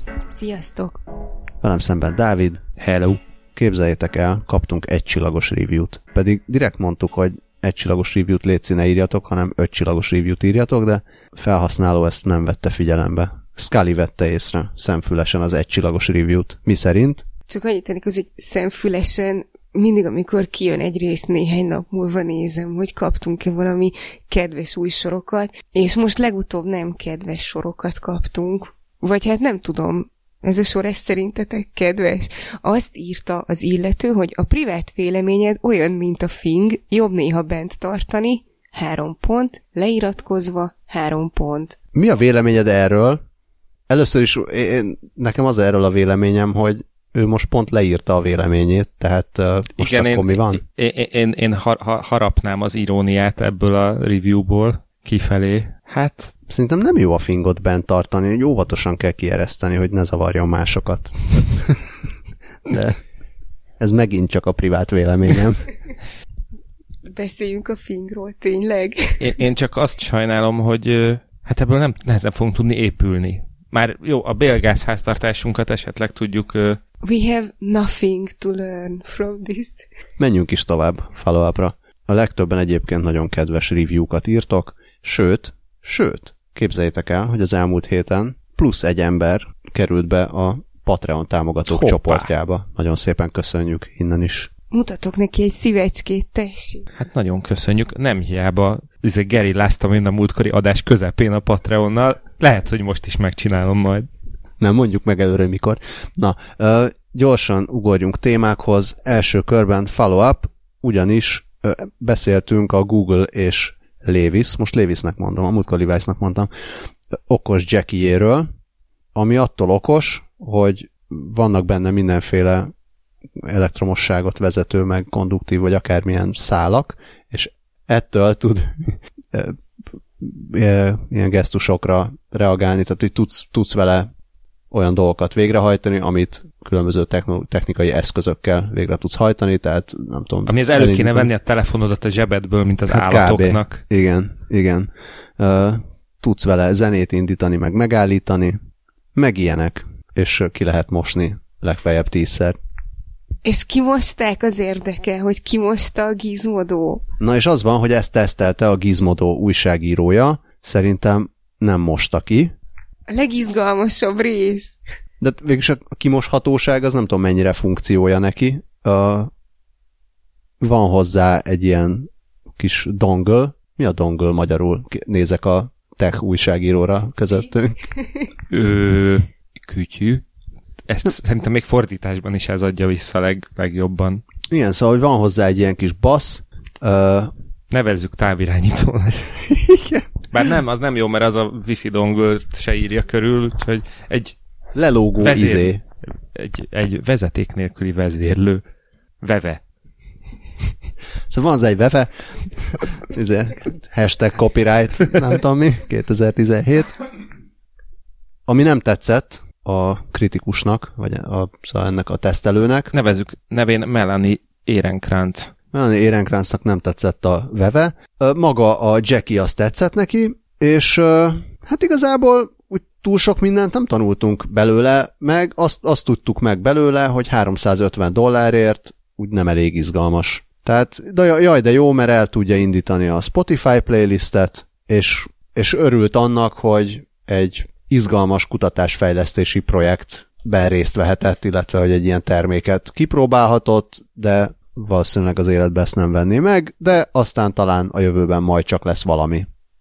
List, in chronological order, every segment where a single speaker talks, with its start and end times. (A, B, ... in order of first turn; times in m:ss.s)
0:00.3-0:01.0 A
0:01.6-0:02.6 B
0:02.8-0:03.2 C
0:03.6-0:17.2 B
0:17.5-0:41.8 A
0:41.9-0:43.2 B
0:43.9-0:50.6 B
0:49.8-0:56.3 C
0:56.5-1:01.9 B
1:02.6-1:03.0 B
1:03.8-1:05.7 B
1:07.1-1:09.4 A
1:09.2-1:16.8 C
1:17.0-1:19.9 A
1:20.2-1:34.5 B
1:31.7-1:32.3 C
1:34.7-1:36.9 A
1:37.0-1:44.1 C
1:44.6-1:56.5 B
1:57.1-1:58.5 B
1:59.1-2:02.7 B
2:03.4-2:09.6 B
2:10.2-2:14.1 B
2:14.7-2:21.3 B
2:20.5-2:23.8 C
2:22.9-2:28.6 B
2:29.1-2:32.6 B
2:33.4-2:37.0 A
2:37.2-2:42.5 B
2:43.1-2:44.8 A
2:45.2-2:49.3 B
2:50.6-2:57.8 B
2:58.0-2:58.3 A
2:58.5-3:00.2 C
3:00.8-3:04.2 C
3:04.5-3:07.3 B
3:07.7-3:09.4 C
3:09.5-3:10.1 B
3:10.3-3:14.4 C
3:14.7-3:15.8 B
3:15.2-3:18.6 C
3:19.2-3:19.6 C
3:21.3-3:27.0 B
3:28.5-3:32.9 B
3:32.9-3:35.5 C
3:35.7-4:09.5 B